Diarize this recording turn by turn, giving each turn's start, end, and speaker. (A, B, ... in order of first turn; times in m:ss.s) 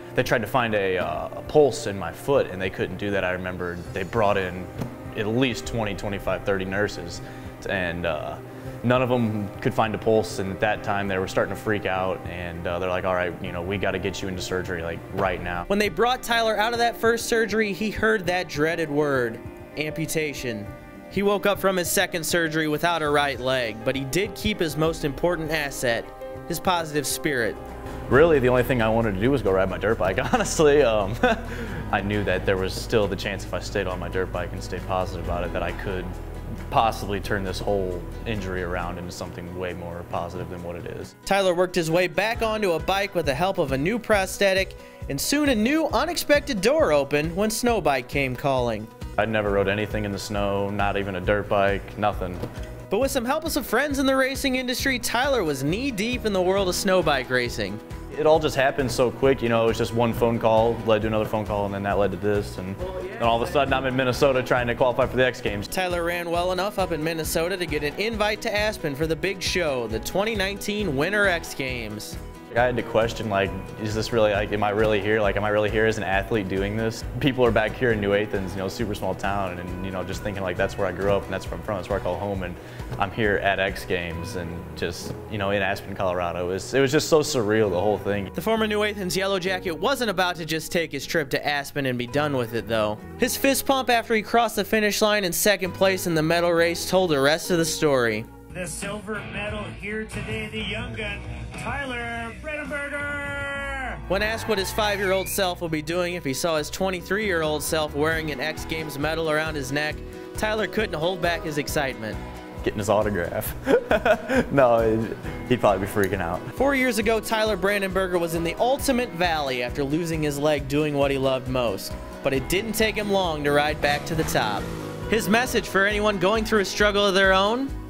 0:00.2-0:15.7 A
0:15.7-0:27.6 B
0:28.1-0:36.1 A
0:36.7-0:41.1 A
0:41.2-0:48.9 B
0:49.2-0:52.4 A
0:52.9-0:57.8 B
0:58.1-1:05.7 A
1:05.7-1:12.2 B
1:12.5-1:28.3 A
1:28.4-1:38.7 B
1:38.5-1:43.9 C
1:43.9-1:52.2 B
1:52.6-1:56.5 A
1:56.6-2:07.7 B